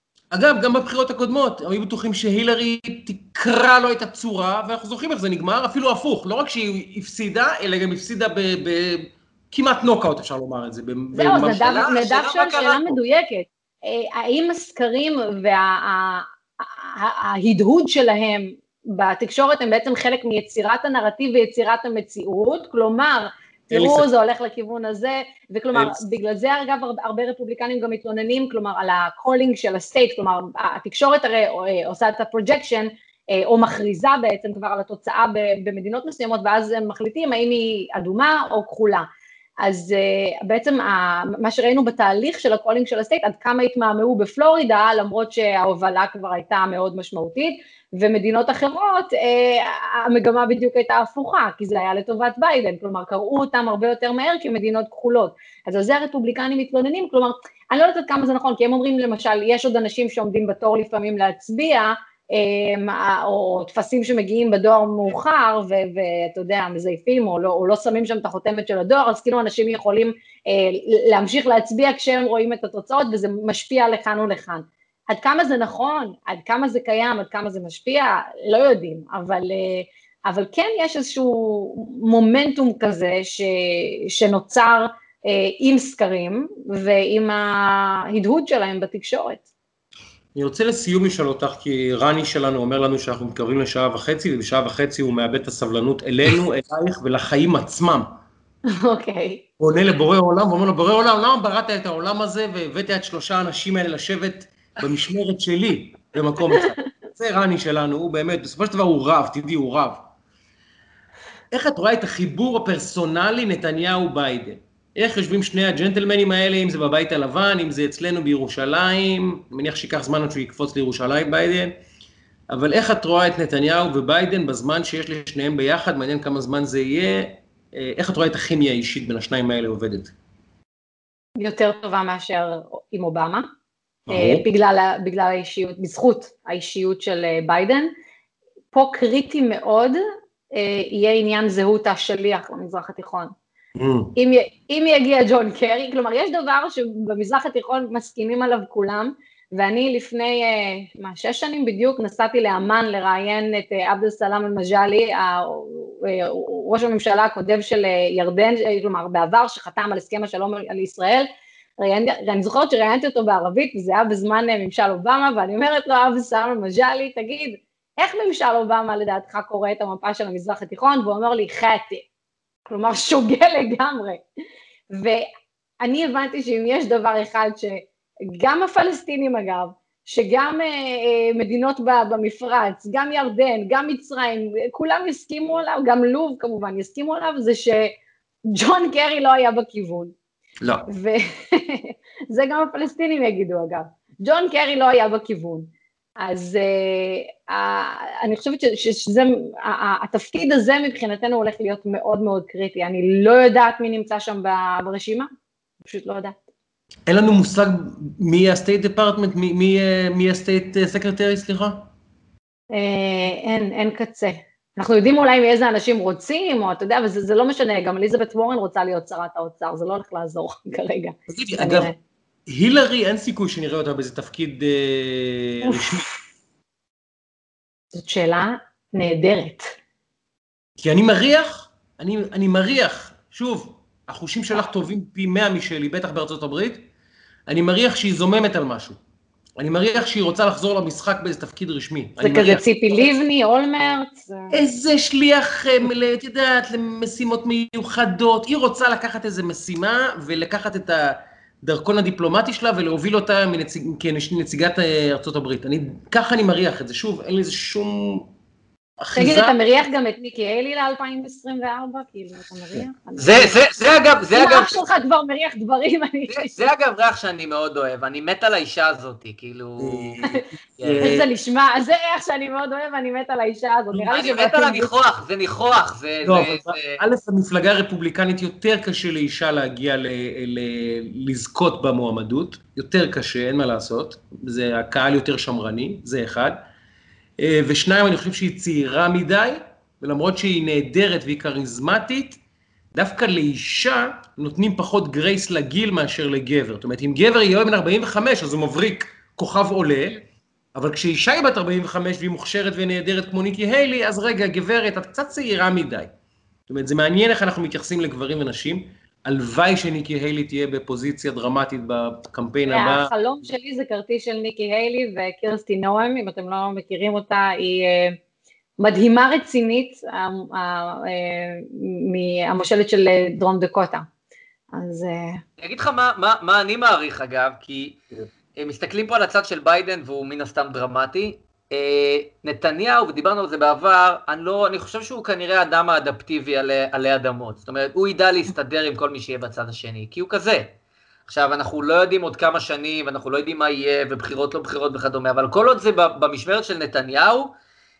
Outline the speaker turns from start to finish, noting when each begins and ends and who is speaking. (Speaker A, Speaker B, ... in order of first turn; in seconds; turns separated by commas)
Speaker A: 0.3-11.8, Speaker B: 11.1-39.1, Speaker C: 11.6-13.0, Speaker A: 23.7-24.1, Speaker A: 25.7-26.0, Speaker B: 39.6-89.4, Speaker A: 90.3-98.2, Speaker B: 98.7-99.4, Speaker A: 99.6-110.1, Speaker A: 111.5-121.8, Speaker A: 122.5-130.1, Speaker B: 131.4-133.5, Speaker A: 134.1-134.4, Speaker B: 134.1-137.9, Speaker B: 138.7-140.0, Speaker B: 140.5-143.3, Speaker A: 143.8-144.1, Speaker B: 144.2-161.3, Speaker B: 161.8-172.1, Speaker B: 172.7-174.2, Speaker B: 174.9-175.3, Speaker B: 175.8-187.9, Speaker B: 188.5-190.1, Speaker A: 190.6-190.9, Speaker B: 190.9-205.3, Speaker B: 205.8-206.4, Speaker A: 207.1-211.9, Speaker B: 212.7-222.0, Speaker A: 221.3-221.9, Speaker A: 222.5-226.1, Speaker B: 225.6-226.2, Speaker B: 227.9-229.8, Speaker A: 230.8-236.8, Speaker A: 237.5-239.0, Speaker A: 239.6-243.1, Speaker B: 242.2-244.6, Speaker A: 244.5-258.3, Speaker A: 259.0-259.5, Speaker B: 259.1-263.6, Speaker C: 263.2-264.8, Speaker B: 264.3-266.6, Speaker C: 266.3-270.2, Speaker A: 269.8-271.3, Speaker C: 270.8-271.1, Speaker B: 271.0-274.9, Speaker C: 274.1-277.0, Speaker A: 276.2-286.6, Speaker A: 287.4-292.4, Speaker A: 292.9-300.2, Speaker A: 300.7-306.1, Speaker A: 306.7-313.1, Speaker B: 312.7-318.2, Speaker B: 318.8-324.1, Speaker B: 324.7-325.4, Speaker C: 325.6-328.0, Speaker C: 328.6-340.7, Speaker C: 341.3-347.5